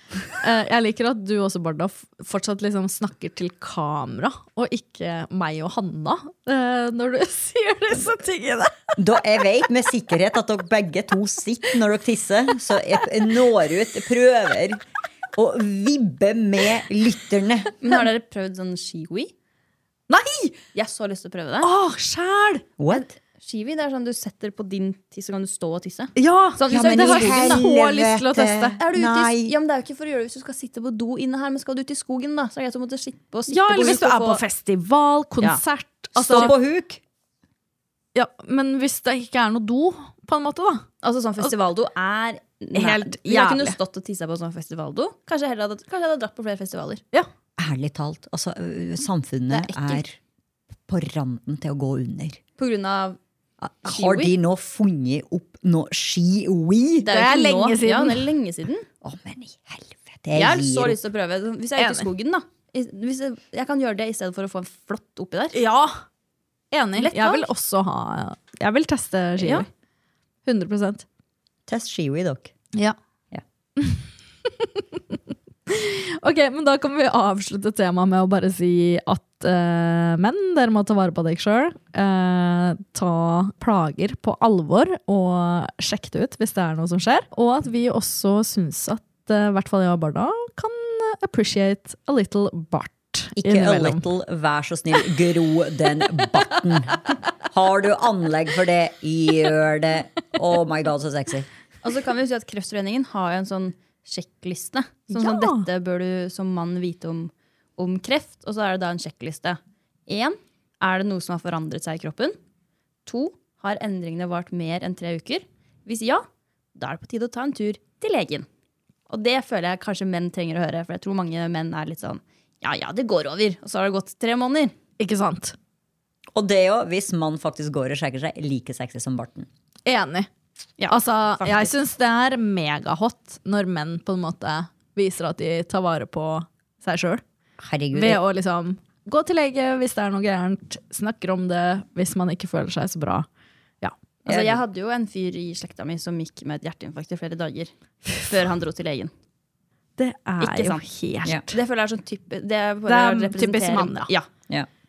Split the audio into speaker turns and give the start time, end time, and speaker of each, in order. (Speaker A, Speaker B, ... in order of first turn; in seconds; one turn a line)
Speaker A: 0.3-8.7
Speaker B: 9.0-17.7
Speaker C: 17.8-19.3
Speaker A: 20.1-20.6
Speaker C: 20.8-21.7
Speaker A: 21.6-22.6
Speaker B: 22.8-23.1
Speaker C: 22.9-27.6
Speaker A: 26.2-28.8
Speaker B: 26.7-29.5
Speaker C: 28.8-34.4
Speaker A: 33.5-36.5
Speaker B: 36.2-37.0
Speaker A: 38.1-40.9
Speaker C: 41.0-47.0
Speaker A: 42.7-43.8
Speaker B: 47.6-50.2
Speaker C: 49.5-50.0
Speaker B: 50.9-52.4
Speaker C: 52.6-53.2
Speaker B: 53.6-57.1
Speaker C: 53.9-54.3
Speaker C: 57.0-58.9
Speaker A: 57.1-58.3
Speaker B: 59.0-61.0
Speaker C: 60.4-65.6
Speaker A: 61.8-62.1
Speaker A: 65.5-66.0
Speaker A: 66.7-69.7
Speaker C: 67.0-67.5
Speaker C: 69.4-69.7
Speaker A: 70.5-71.0
Speaker B: 71.7-72.5
Speaker A: 75.7-94.0
Speaker B: 93.4-101.5
Speaker C: 101.8-112.4
Speaker A: 105.1-105.7
Speaker C: 113.1-118.5
Speaker C: 119.1-124.7
Speaker A: 125.0-125.6
Speaker B: 126.3-129.5
Speaker A: 129.9-130.3
Speaker C: 130.8-131.7
Speaker A: 130.9-137.2
Speaker B: 137.6-138.2
Speaker A: 137.9-143.3
Speaker B: 144.3-144.6
Speaker C: 144.3-149.1
Speaker A: 150.0-151.5
Speaker C: 150.4-150.8
Speaker C: 151.5-154.3
Speaker A: 152.9-154.1